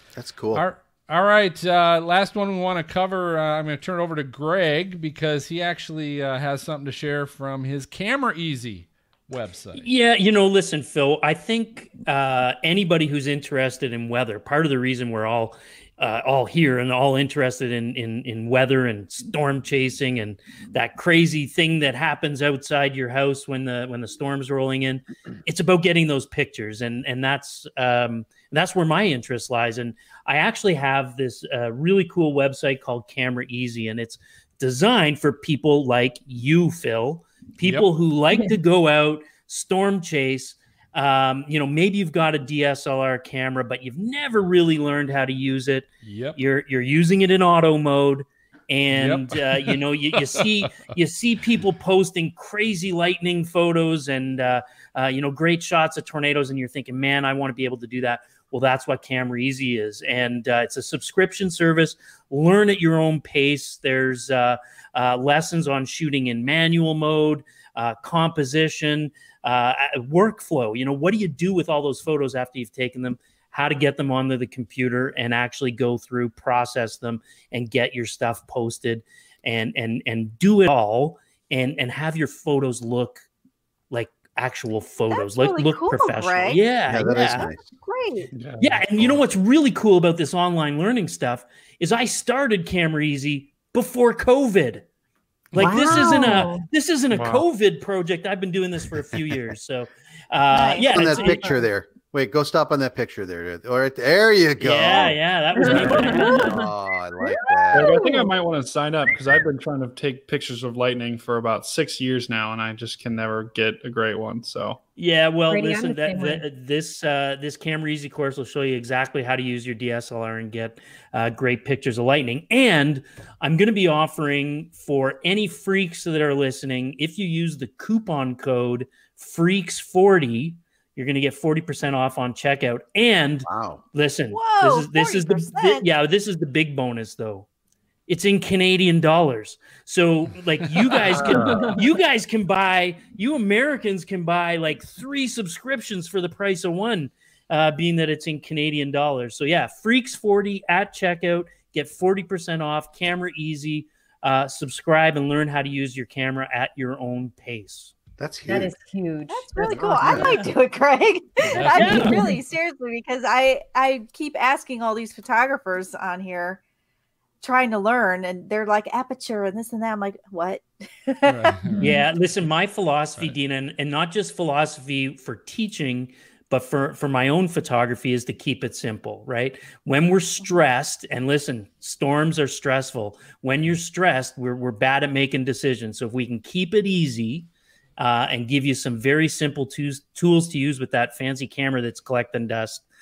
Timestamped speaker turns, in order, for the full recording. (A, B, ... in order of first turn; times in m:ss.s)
0:00.2-0:00.6 A
0:00.6-0:09.8 B
0:09.8-1:23.3 C
0:37.6-0:37.9 B
0:46.0-0:46.4 B
0:48.9-0:50.4 B
1:23.9-1:27.5 C
1:25.1-1:26.6 D
1:26.9-1:27.6 A
1:27.6-1:28.3 D
1:28.3-1:29.2 E
1:28.6-1:34.8 C
1:35.5-1:41.6 C
1:35.6-1:36.7 F
1:37.1-1:37.5 E
1:40.5-1:41.5 D
1:40.9-1:47.9 A
1:44.6-1:46.7 C
1:45.6-1:46.6 F
1:45.6-1:46.2 E
1:47.7-1:54.8 E
1:47.8-1:48.3 D
1:55.0-2:17.5 C
1:55.5-1:56.4 F
2:13.4-2:13.8 A
2:14.3-2:15.9 D
2:18.1-2:37.9 C
2:21.2-2:21.6 A
2:21.3-2:21.6 E
2:38.2-2:38.7 A
2:38.5-2:40.2 F
2:39.3-2:46.6 D
2:39.8-2:40.5 C
2:40.0-2:40.2 A
2:41.5-2:42.4 C
2:41.5-2:42.2 B
2:47.4-2:52.0 D
2:51.2-2:51.9 B
2:51.8-3:12.8 C